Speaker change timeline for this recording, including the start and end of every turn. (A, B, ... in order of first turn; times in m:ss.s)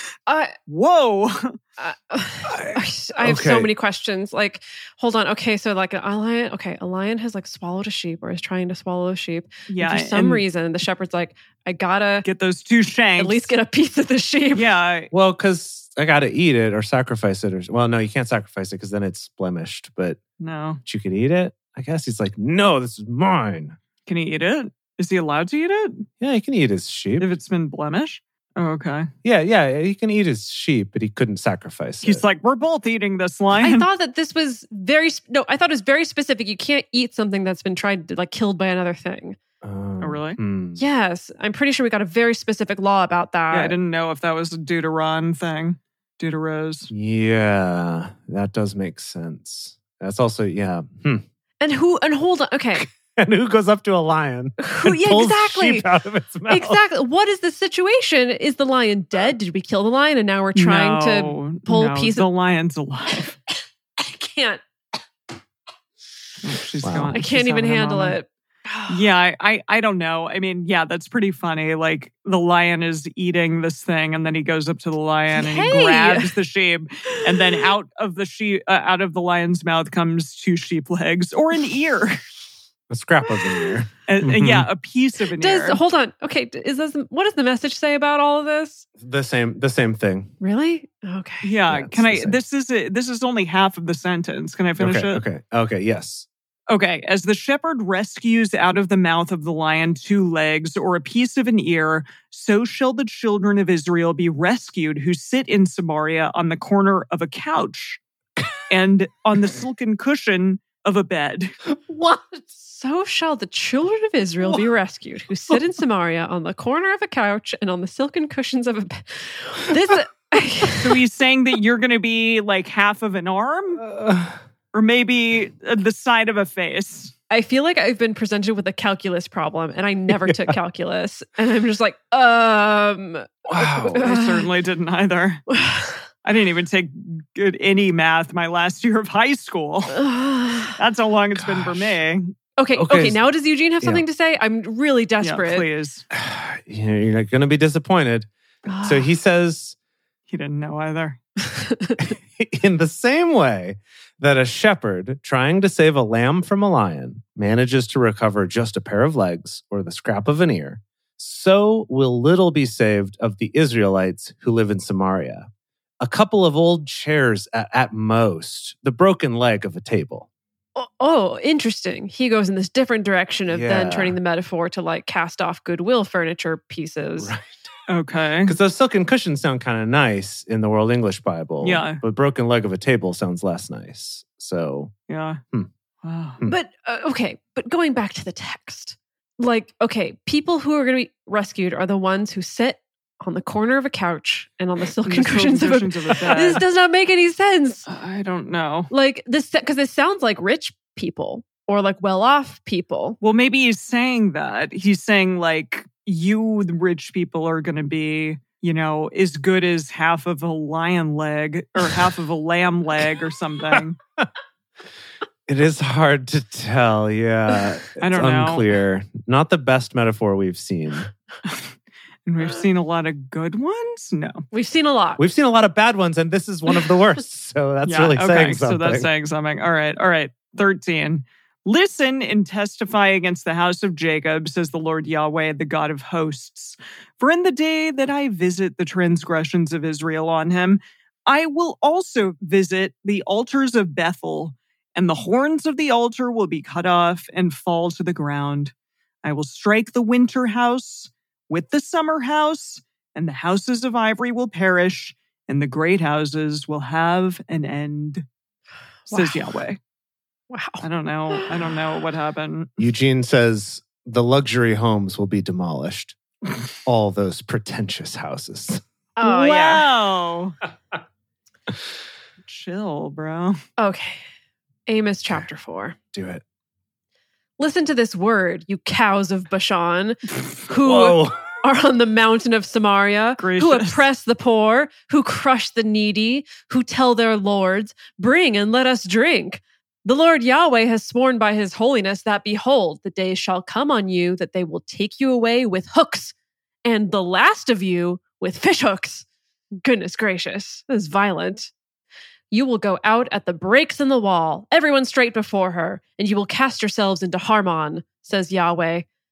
0:00.3-0:00.5 A
0:00.7-0:01.6 B
0:01.8-0:12.2 A
0:02.4-0:03.7 C
0:09.7-0:10.4 B
0:12.2-0:13.5 B
0:13.2-0:14.7 A
0:14.5-0:15.1 B
0:15.1-0:20.2 C
0:20.4-0:20.8 B
0:20.8-0:23.8 C
0:24.1-0:26.1 B
0:26.2-0:27.3 C
0:27.2-0:29.1 B
0:29.2-0:32.2 C
0:32.0-0:33.9 B
0:33.6-0:39.4 A
0:39.6-0:40.8 C
0:40.0-0:40.4 B
0:40.8-0:43.7 A
0:43.5-0:46.9 B
0:46.9-0:51.2 C
0:51.6-0:52.9 A
0:52.8-0:56.8 C
0:54.6-0:55.9 A
0:56.5-1:02.2 A
1:00.5-1:03.3 B
1:04.0-1:04.6 A
1:06.4-1:08.2 B
1:06.8-1:07.1 C
1:07.1-1:09.0 A
1:08.9-1:22.2 B
1:15.3-1:16.3 A
1:22.9-1:24.7 C
1:24.1-1:25.8 B
1:25.4-1:28.8 A
1:29.0-1:30.3 C
1:30.4-1:31.5 A
1:31.4-1:35.2 B
1:31.7-1:32.4 C
1:34.8-1:36.3 C
1:36.7-1:48.0 B
1:48.7-1:51.5 B
1:51.9-2:01.0 A
2:00.7-2:03.8 B
2:03.8-2:04.4 C
2:04.7-2:07.1 B
2:07.3-2:14.5 A
2:10.2-2:10.6 C
2:13.4-2:14.0 C
2:13.9-2:15.4 B
2:15.5-2:16.0 A
2:16.2-2:20.0 B
2:19.9-2:20.8 A
2:20.8-2:22.3 B
2:21.3-2:22.0 C
2:22.6-2:25.7 A
2:22.7-2:23.2 C
2:25.2-2:26.0 B
2:26.1-2:28.3 C
2:28.6-2:29.1 A
2:28.8-2:29.8 C
2:30.3-2:31.2 B
2:31.4-2:32.0 A
2:32.0-2:45.5 C
2:46.0-2:50.3 C
2:50.7-2:57.3 A
2:53.5-2:54.2 C
2:57.2-2:57.6 C
2:57.9-2:58.6 B
2:58.4-3:04.9 C
3:01.6-3:02.0 B
3:05.1-3:05.4 B
3:06.0-3:06.4 B
3:06.4-3:17.8 A
3:15.0-3:16.6 B
3:17.9-3:18.9 B
3:18.9-3:23.2 A
3:23.2-3:34.0 B
3:35.5-3:41.1 C
3:38.0-3:38.6 B
3:41.4-3:41.7 B
3:42.2-3:44.4 B
3:44.5-3:45.2 A
3:45.2-3:49.1 C
3:47.8-4:08.7 B
4:09.2-4:18.2 B
4:19.1-4:19.8 B
4:19.1-4:19.6 A
4:20.5-4:21.5 A
4:20.8-4:22.7 B
4:22.8-4:26.2 C
4:26.8-4:28.8 C
4:29.2-4:29.8 A
4:29.2-4:30.6 B
4:32.4-4:33.6 B
4:33.8-4:34.2 A
4:34.9-4:36.0 A
4:36.1-4:36.4 C
4:37.6-4:56.3 A
4:40.8-4:41.4 C
4:43.4-4:44.0 B
4:56.8-4:59.2 A
4:59.8-5:01.7 A
5:02.5-5:09.0 A